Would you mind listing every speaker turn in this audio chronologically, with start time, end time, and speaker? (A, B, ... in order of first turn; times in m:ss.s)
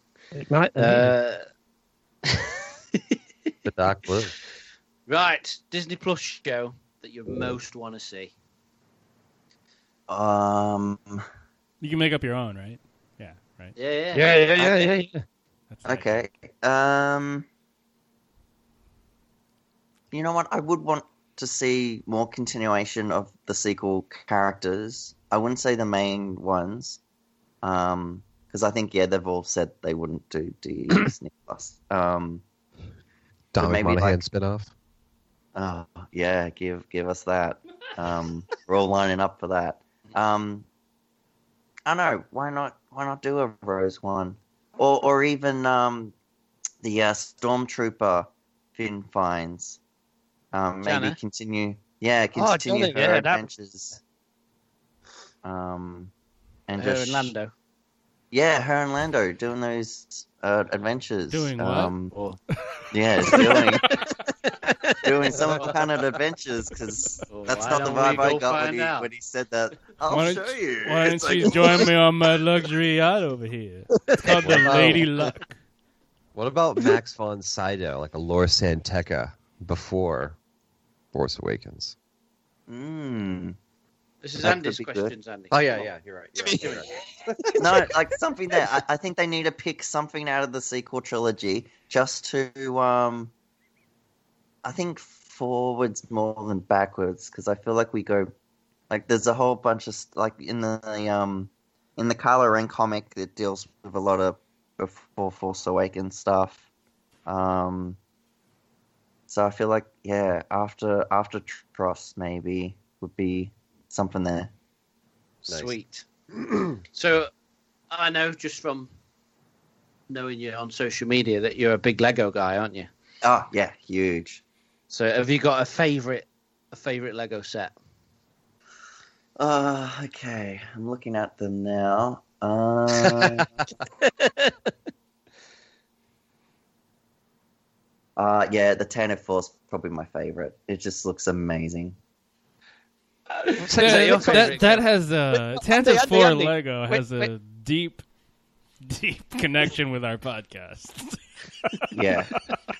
0:00.3-0:01.1 A
0:00.8-0:01.4 B
0:03.6-0:04.3 C
0:05.1-0:08.3 B
0:10.1-0:11.2 D
0:11.8-0:13.7 E
0:13.8-0:14.4 B
0:14.1-0:15.2 A
0:14.6-0:14.9 D
0:15.7-0:16.2 E
0:15.8-0:17.5 D
0:20.1-0:27.0 D
0:27.6-0:32.4 D
0:33.5-0:34.7 C
0:33.6-0:34.2 D
0:35.5-0:40.7 D
0:41.8-0:46.1 D
0:46.8-0:49.8 D
0:50.5-0:54.0 D
0:50.8-0:51.2 B
0:52.4-0:53.4 A
0:55.4-0:56.1 D
0:56.7-0:57.3 D
0:56.8-0:57.5 B
0:58.3-1:02.1 D
1:01.3-1:01.9 E
1:02.1-1:02.4 B
1:02.9-1:04.0 D
1:03.3-1:04.0 E
1:04.7-1:05.0 B
1:05.0-1:11.9 D
1:07.3-1:09.1 B
1:10.1-1:15.5 E
1:14.0-1:14.8 A
1:14.4-1:15.1 C
1:16.3-1:20.4 C
1:21.1-1:21.9 C
1:22.7-1:23.6 D
1:24.2-1:25.6 B
1:24.4-1:25.1 D
1:25.5-1:27.8 C
1:26.4-1:26.9 A
1:27.6-1:33.3 D
1:34.6-1:38.3 D
1:38.9-1:46.6 D
1:47.2-1:48.0 D
1:49.3-1:54.5 D
1:55.4-1:56.0 B
1:55.5-1:55.7 C
1:56.3-1:56.8 C
1:56.9-1:57.3 B
1:57.9-1:58.9 B
2:00.1-2:02.9 B
2:03.2-2:04.4 D
2:04.9-2:07.7 B
2:09.4-2:13.6 D
2:12.9-2:13.4 C
2:18.2-2:22.0 D
2:23.3-2:24.8 A
2:23.7-2:24.8 B
2:23.7-2:28.0 E
2:25.5-2:27.3 A
2:28.8-2:31.9 E
2:31.9-2:32.3 D